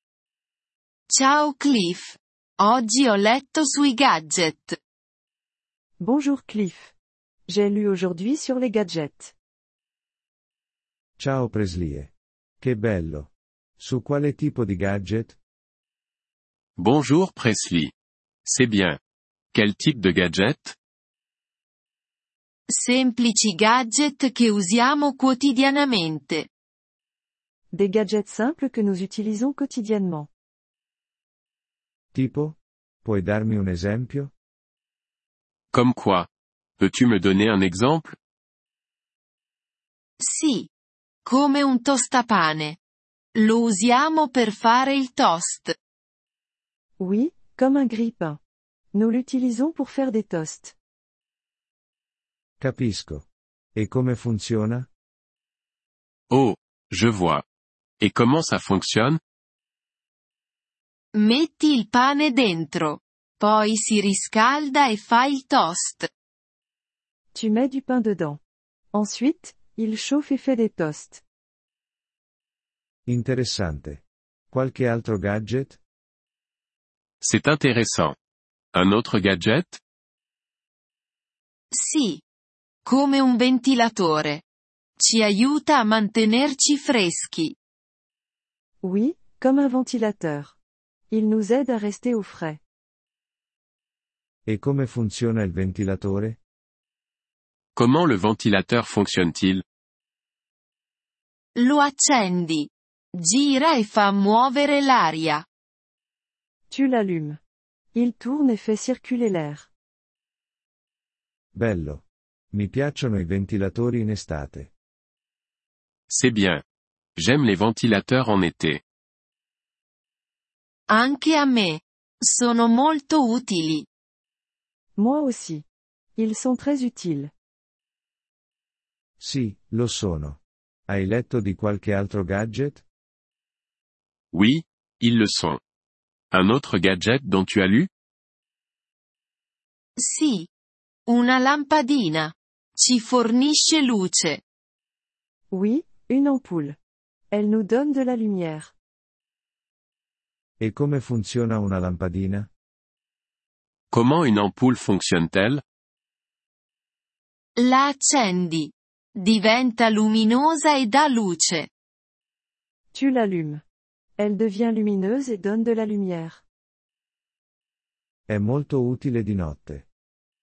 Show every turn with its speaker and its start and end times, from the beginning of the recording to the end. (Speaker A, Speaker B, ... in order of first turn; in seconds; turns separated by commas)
Speaker A: 1.1-4.8, Speaker B: 6.0-6.9, Speaker B: 7.5-9.3, Speaker C: 11.2-15.4, Speaker D: 16.8-17.9, Speaker D: 18.4-19.0, Speaker D: 19.5-20.8, Speaker A: 22.7-26.5, Speaker B: 27.7-30.3, Speaker C: 32.1-34.3, Speaker D: 35.7-36.3, Speaker D: 36.8-38.1, Speaker A: 40.2-40.7, Speaker A: 41.2-42.8, Speaker A: 43.3-45.7, Speaker B: 47.0-48.4, Speaker B: 48.9-50.7, Speaker C: 52.6-54.9, Speaker D: 56.3-57.4, Speaker D: 58.0-59.2, Speaker A: 61.1-66.1, Speaker B: 67.3-68.4, Speaker B: 68.9-71.2, Speaker C: 73.0-75.8, Speaker D: 77.2-78.2, Speaker D: 78.7-79.8, Speaker A: 81.7-82.2, Speaker A: 82.8-84.4, Speaker A: 85.0-87.5, Speaker B: 88.8-90.5, Speaker B: 91.1-92.6, Speaker C: 94.5-96.4, Speaker D: 97.8-99.6, Speaker A: 101.5-105.4, Speaker B: 106.7-107.4, Speaker B: 107.9-109.7, Speaker C: 111.5-114.7, Speaker D: 116.1-116.6, Speaker D: 117.2-118.8, Speaker A: 120.9-123.8, Speaker B: 125.0-125.6, Speaker B: 126.2-127.3, Speaker C: 129.2-132.8, Speaker D: 134.3-135.6, Speaker D: 136.3-137.9, Speaker A: 140.0-140.5, Speaker A: 141.1-144.4, Speaker B: 145.5-146.8, Speaker B: 147.3-148.7, Speaker C: 150.6-152.5, Speaker D: 153.9-155.6, Speaker A: 157.6-161.7, Speaker B: 162.9-163.6, Speaker B: 164.2-166.4, Speaker C: 168.3-169.8